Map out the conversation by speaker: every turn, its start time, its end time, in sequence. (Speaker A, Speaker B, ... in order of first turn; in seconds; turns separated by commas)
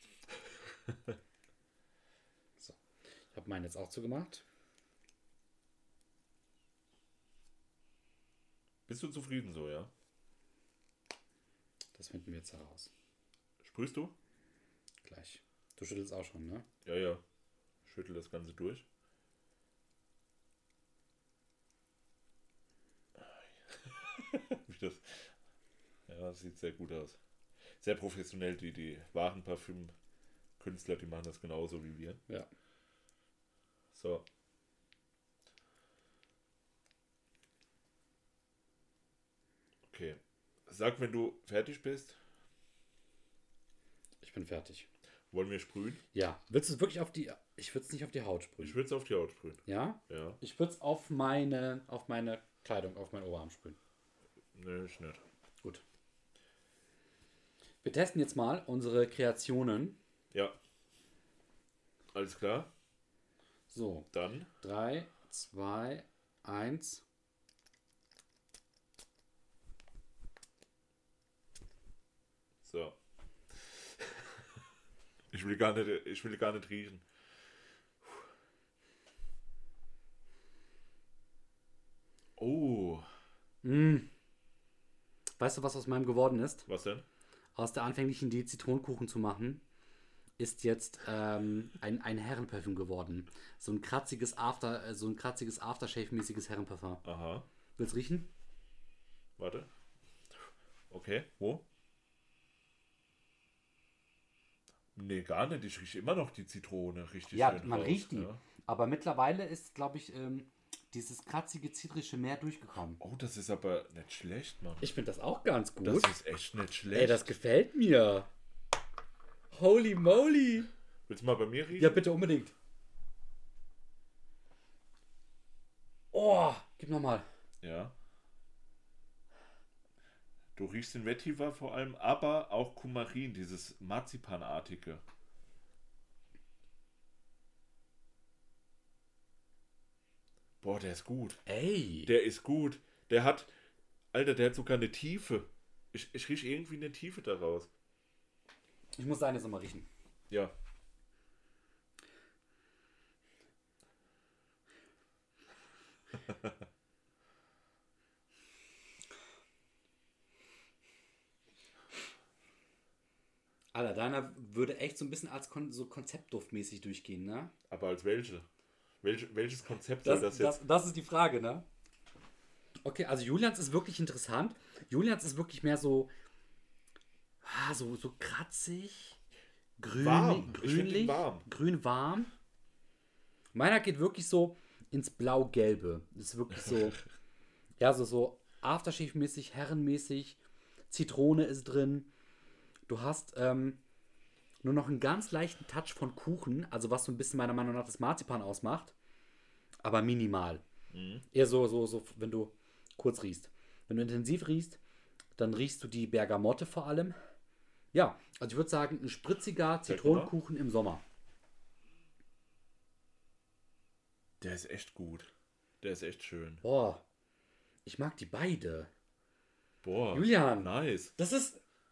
Speaker A: 0.4-1.2, Speaker B: 3.3-4.4, Speaker A: 8.9-9.9, Speaker B: 12.0-12.9, Speaker A: 13.6-14.1, Speaker B: 15.0-16.6, Speaker A: 16.8-17.2, Speaker A: 17.9-18.9, Speaker A: 23.2-25.4, Speaker A: 26.1-27.2, Speaker A: 27.8-29.9, Speaker A: 30.6-32.2, Speaker A: 33.9-34.3, Speaker A: 39.9-42.2, Speaker B: 44.2-44.9, Speaker A: 45.3-46.0, Speaker B: 46.1-48.8, Speaker A: 48.6-50.4, Speaker B: 49.7-53.8, Speaker A: 54.5-55.2, Speaker B: 57.8-60.0, Speaker A: 62.1-62.7, Speaker B: 63.7-64.1, Speaker A: 64.1-64.5, Speaker B: 64.6-67.0, Speaker A: 72.6-73.0, Speaker A: 73.5-74.6, Speaker A: 75.3-77.0, Speaker A: 82.4-83.1, Speaker B: 83.6-84.1, Speaker B: 85.4-86.7, Speaker A: 86.7-87.0, Speaker B: 87.5-89.6, Speaker B: 90.4-97.0, Speaker A: 97.0-97.5, Speaker B: 97.8-98.3, Speaker A: 99.4-99.7, Speaker A: 100.9-101.6, Speaker A: 105.0-108.4, Speaker B: 107.3-113.0, Speaker A: 113.0-114.9, Speaker B: 114.8-116.1, Speaker A: 115.8-117.3, Speaker B: 116.9-118.3, Speaker B: 119.5-120.7, Speaker A: 121.1-122.0, Speaker B: 121.8-122.5, Speaker B: 126.1-127.3, Speaker A: 127.6-127.9, Speaker A: 130.6-135.0, Speaker A: 140.6-141.4, Speaker B: 141.5-142.1, Speaker A: 142.1-143.5, Speaker A: 144.1-147.7, Speaker B: 149.0-149.9, Speaker B: 163.7-167.5, Speaker A: 167.7-168.5, Speaker A: 169.0-170.6, Speaker B: 170.0-171.7, Speaker B: 172.8-176.1, Speaker B: 177.4-179.2, Speaker B: 179.8-182.3, Speaker A: 179.9-181.4, Speaker B: 183.5-187.0, Speaker A: 186.7-187.0, Speaker B: 187.8-190.4, Speaker B: 190.9-192.1, Speaker B: 192.9-193.8, Speaker B: 194.6-198.9, Speaker B: 199.8-200.6, Speaker A: 200.9-201.2, Speaker B: 201.3-204.8, Speaker B: 205.4-207.2, Speaker B: 207.9-211.0, Speaker A: 209.9-210.3, Speaker A: 214.4-215.3, Speaker A: 215.8-216.6, Speaker B: 216.6-217.0, Speaker B: 217.8-218.9, Speaker A: 219.8-221.1, Speaker B: 220.1-221.6